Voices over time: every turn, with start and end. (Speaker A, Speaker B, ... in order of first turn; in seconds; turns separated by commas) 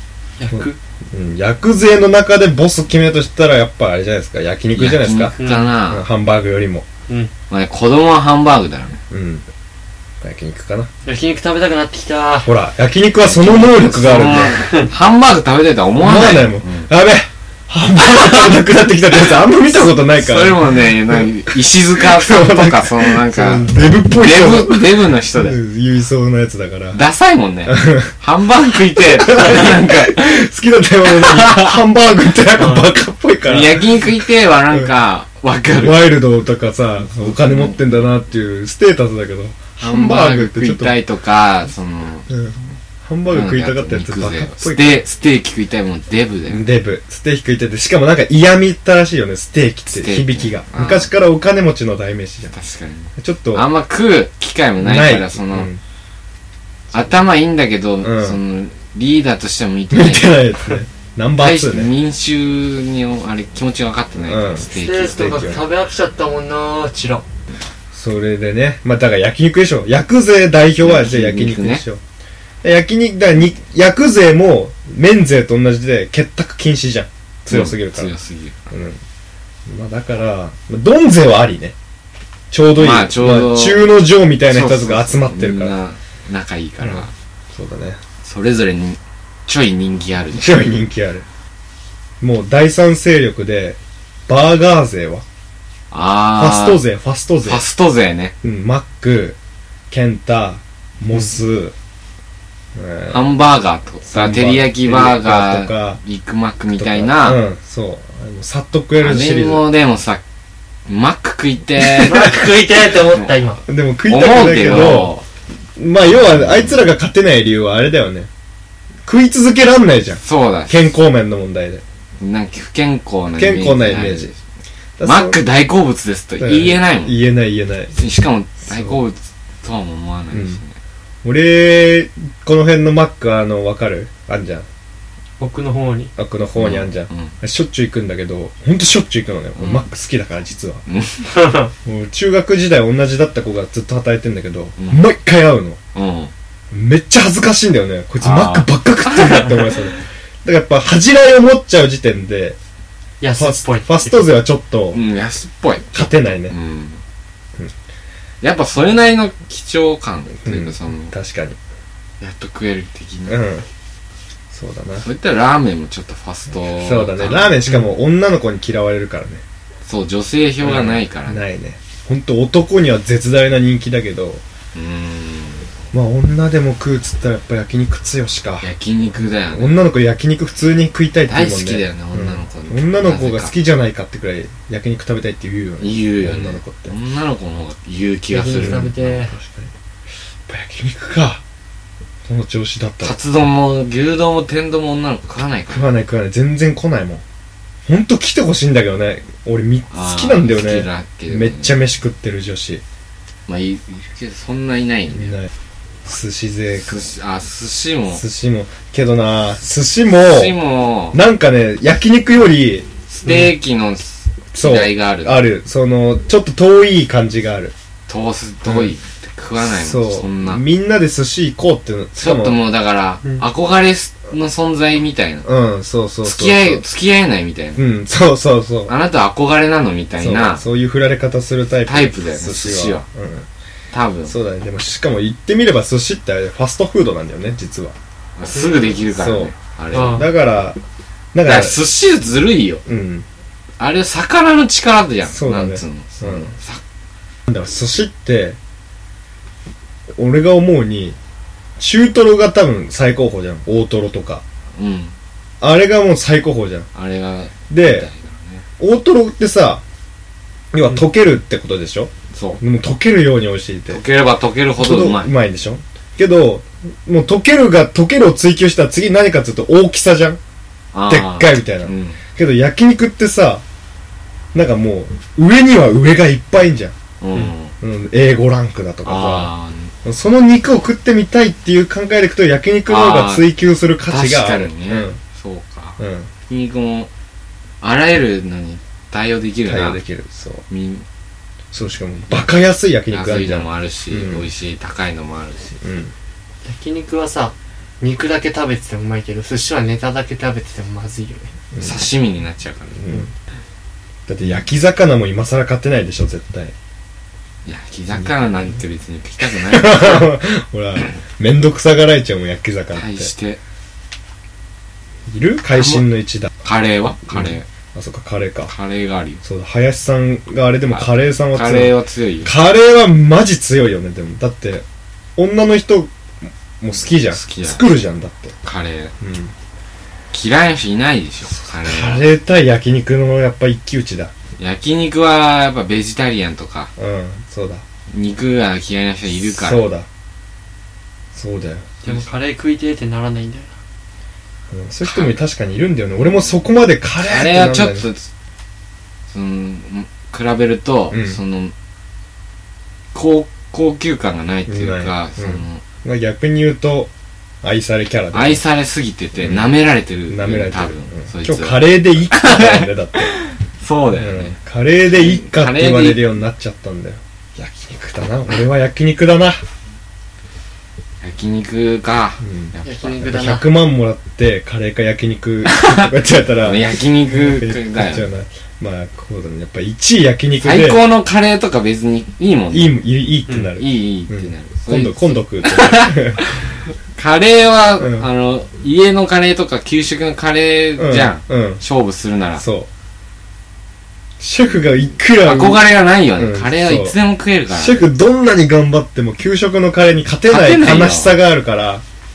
Speaker A: 0.4-0.8, Speaker B: 0.5-5.3, Speaker C: 4.7-6.0, Speaker A: 5.4-5.7, Speaker B: 5.9-6.8, Speaker C: 7.5-9.0, Speaker B: 9.1-9.4, Speaker B: 10.2-10.9, Speaker A: 11.0-12.5, Speaker B: 12.4-14.8, Speaker C: 13.2-16.9, Speaker B: 16.0-27.0, Speaker C: 20.1-25.6, Speaker C: 26.9-30.5, Speaker B: 27.6-28.1, Speaker B: 29.0-34.1, Speaker C: 31.1-31.8, Speaker A: 32.6-32.8, Speaker C: 33.4-36.1, Speaker B: 35.8-40.9, Speaker C: 37.1-37.9, Speaker C: 39.8-42.3, Speaker B: 42.3-45.0, Speaker C: 43.3-46.6, Speaker B: 46.5-52.5, Speaker C: 49.9-51.1, Speaker C: 52.5-55.7, Speaker B: 53.2-53.7, Speaker B: 54.8-55.8, Speaker C: 56.9-60.4, Speaker B: 58.0-58.4, Speaker B: 59.9-61.9, Speaker C: 61.4-65.5, Speaker B: 64.2-65.7, Speaker A: 64.7-67.2, Speaker B: 67.9-72.0, Speaker C: 70.8-71.8, Speaker B: 72.6-78.1, Speaker C: 77.5-78.7, Speaker B: 78.7-79.0, Speaker B: 79.7-81.7, Speaker B: 82.5-85.7, Speaker C: 82.8-83.9, Speaker C: 84.5-87.1, Speaker B: 86.8-88.0, Speaker C: 88.2-90.6, Speaker B: 90.3-91.2, Speaker B: 92.2-95.2, Speaker C: 95.9-96.8, Speaker B: 96.4-97.6, Speaker C: 97.4-98.3, Speaker B: 98.4-99.4, Speaker B: 99.9-101.7, Speaker B: 102.7-103.2, Speaker C: 103.1-107.4, Speaker B: 104.1-106.0, Speaker B: 106.7-109.6, Speaker C: 109.0-110.2, Speaker C: 110.9-113.3, Speaker A: 111.8-113.6, Speaker B: 113.7-115.1, Speaker C: 114.1-115.2, Speaker B: 115.8-118.3, Speaker C: 116.1-116.8, Speaker B: 119.0-121.8, Speaker C: 120.2-120.8, Speaker C: 122.2-124.4, Speaker B: 123.4-124.3, Speaker B: 125.0-125.4, Speaker C: 125.0-127.2, Speaker B: 126.4-127.9, Speaker C: 127.9-130.7, Speaker B: 128.7-129.0, Speaker B: 130.3-130.6, Speaker B: 131.2-134.7, Speaker A: 135.4-136.1, Speaker B: 136.2-140.8, Speaker C: 136.6-137.3, Speaker C: 139.6-139.8, Speaker C: 140.9-141.3, Speaker A: 141.3-141.7, Speaker B: 141.8-145.8, Speaker C: 145.9-146.3, Speaker B: 146.7-152.6, Speaker C: 148.2-149.8, Speaker A: 153.2-154.3, Speaker B: 153.4-155.0, Speaker C: 154.9-157.0, Speaker B: 155.9-156.5, Speaker C: 158.4-161.1, Speaker B: 160.4-161.6, Speaker C: 162.2-163.4, Speaker B: 163.3-163.7, Speaker B: 164.5-165.1, Speaker C: 165.0-167.8, Speaker B: 166.6-169.4, Speaker C: 169.8-171.4, Speaker B: 170.6-174.4, Speaker C: 174.7-175.7, Speaker B: 175.9-178.7, Speaker C: 178.6-179.8, Speaker B: 179.5-186.9, Speaker C: 181.3-183.5, Speaker C: 185.8-189.2, Speaker A: 188.3-189.3, Speaker B: 188.5-189.7, Speaker B: 190.5-191.4, Speaker B: 192.3-193.2, Speaker C: 193.0-195.9, Speaker B: 195.7-197.2, Speaker B: 197.8-202.8, Speaker C: 199.9-201.8, Speaker C: 203.5-205.4, Speaker B: 206.0-207.1, Speaker C: 206.8-208.2, Speaker B: 208.1-210.6, Speaker C: 210.1-211.2, Speaker B: 211.1-212.9, Speaker C: 213.1-215.5, Speaker B: 214.5-217.7, Speaker C: 218.1-220.6, Speaker B: 218.7-218.9, Speaker B: 219.6-222.6, Speaker C: 222.2-225.5, Speaker B: 225.4-226.8, Speaker C: 226.2-227.8, Speaker B: 227.8-228.9, Speaker C: 228.9-230.6, Speaker B: 230.2-233.5, Speaker C: 231.8-233.0, Speaker C: 233.9-234.3, Speaker B: 234.3-237.9, Speaker C: 238.4-240.3, Speaker B: 239.2-240.8, Speaker A: 239.9-240.2, Speaker B: 241.3-241.8, Speaker C: 241.4-242.8, Speaker B: 242.8-243.3, Speaker C: 243.8-246.8, Speaker B: 245.3-246.5, Speaker B: 247.5-248.6, Speaker B: 250.2-251.2, Speaker B: 251.8-254.4, Speaker C: 254.8-255.1, Speaker B: 255.6-256.9, Speaker C: 256.9-258.6, Speaker B: 257.7-258.1, Speaker B: 258.8-259.8, Speaker B: 260.7-264.0, Speaker C: 262.3-262.6, Speaker C: 263.9-265.3, Speaker B: 264.8-270.4, Speaker C: 270.9-272.2, Speaker B: 271.1-273.6, Speaker B: 274.5-276.9, Speaker C: 277.2-277.7, Speaker B: 277.8-279.5, Speaker C: 279.0-279.9, Speaker B: 280.0-285.2, Speaker C: 282.9-283.4, Speaker C: 284.1-287.1, Speaker B: 286.0-286.3, Speaker C: 287.8-290.0, Speaker B: 289.6-290.6, Speaker C: 290.7-291.0, Speaker B: 291.7-294.5, Speaker C: 293.1-295.7, Speaker B: 295.8-296.1, Speaker A: 296.6-301.5, Speaker B: 301.7-302.0, Speaker C: 301.8-303.3, Speaker B: 303.0-303.3, Speaker B: 304.3-306.7, Speaker C: 307.6-310.4, Speaker B: 309.4-313.3, Speaker C: 312.9-313.6, Speaker B: 315.3-316.5, Speaker C: 315.8-316.0, Speaker C: 316.6-317.6, Speaker B: 317.3-318.7, Speaker C: 318.7-319.4, Speaker B: 319.4-324.8, Speaker C: 320.9-322.5, Speaker B: 325.4-326.1, Speaker B: 326.8-328.6, Speaker C: 327.3-327.9, Speaker C: 328.6-329.1, Speaker B: 329.2-329.5, Speaker C: 330.3-332.2, Speaker B: 331.8-334.3, Speaker C: 334.6-336.9, Speaker B: 337.0-337.8, Speaker C: 338.1-339.8, Speaker B: 339.5-340.1, Speaker B: 341.3-342.0, Speaker A: 342.0-343.7, Speaker B: 344.7-348.1, Speaker C: 345.0-345.4, Speaker C: 347.2-348.3, Speaker C: 349.3-351.7, Speaker B: 351.1-351.4, Speaker C: 353.1-355.8, Speaker B: 354.7-357.1, Speaker B: 357.6-358.6, Speaker C: 358.3-364.5, Speaker B: 359.4-359.7, Speaker B: 360.3-363.3, Speaker B: 364.1-369.6, Speaker C: 365.1-366.3, Speaker C: 371.2-373.3, Speaker B: 372.4-381.0, Speaker A: 372.8-373.7, Speaker C: 375.6-376.1, Speaker C: 376.6-378.2, Speaker C: 380.6-383.0, Speaker B: 382.7-386.4, Speaker C: 383.8-392.6, Speaker B: 391.0-391.8, Speaker B: 392.6-392.9, Speaker B: 394.4-395.8, Speaker C: 395.4-398.0, Speaker B: 396.4-397.1, Speaker B: 397.7-402.0, Speaker C: 400.5-401.4